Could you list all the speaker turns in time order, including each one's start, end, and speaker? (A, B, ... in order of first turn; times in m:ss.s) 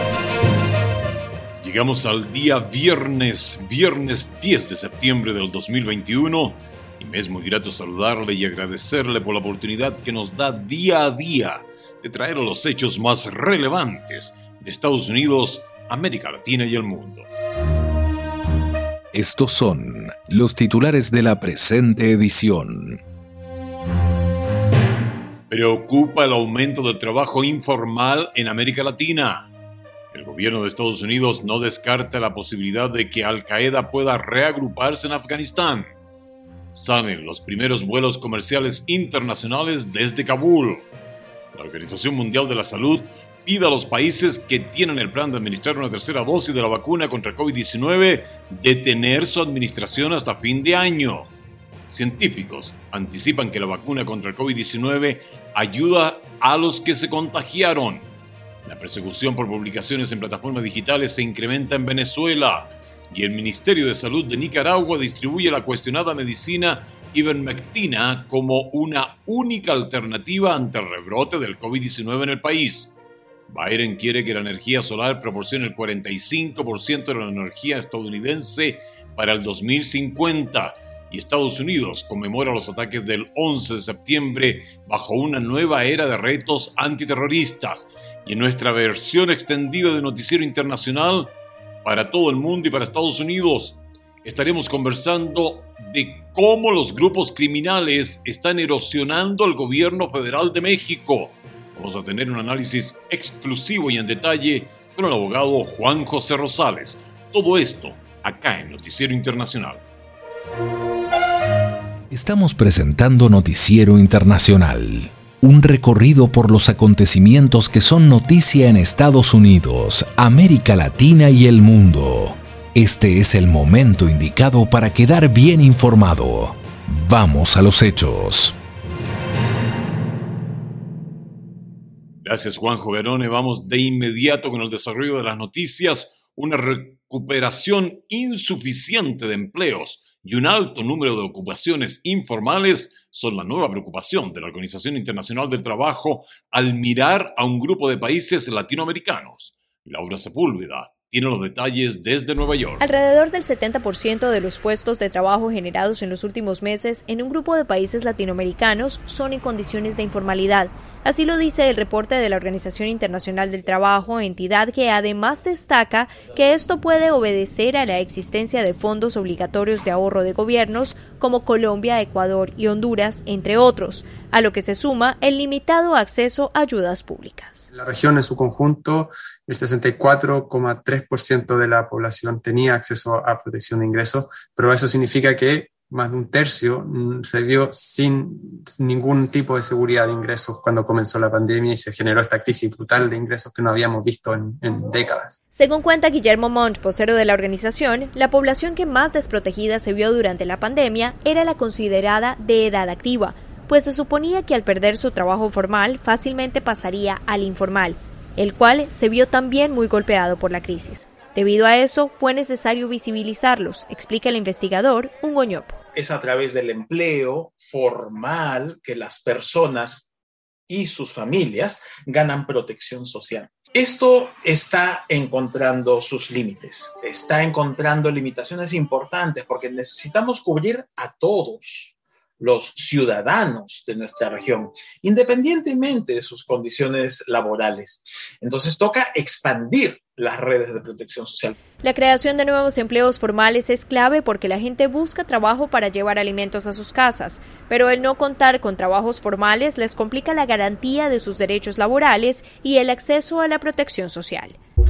0:01.6-0:17.3 A
0:19.1-0:23.0 B
0:25.5-0:29.5 A
0:30.1-0:35.9 A
0:36.7-0:40.8 A
0:41.5-0:51.3 A
0:51.9-0:58.1 A
0:58.6-1:12.9 A
1:13.5-1:31.3 A
1:31.8-1:49.8 A
1:52.1-2:08.6 B
2:12.2-2:32.8 A
2:32.8-2:57.7 C
2:57.7-3:15.4 D
3:15.5-3:35.8 C
3:35.9-3:40.1 E
3:40.7-4:01.6 E
4:01.8-4:14.6 C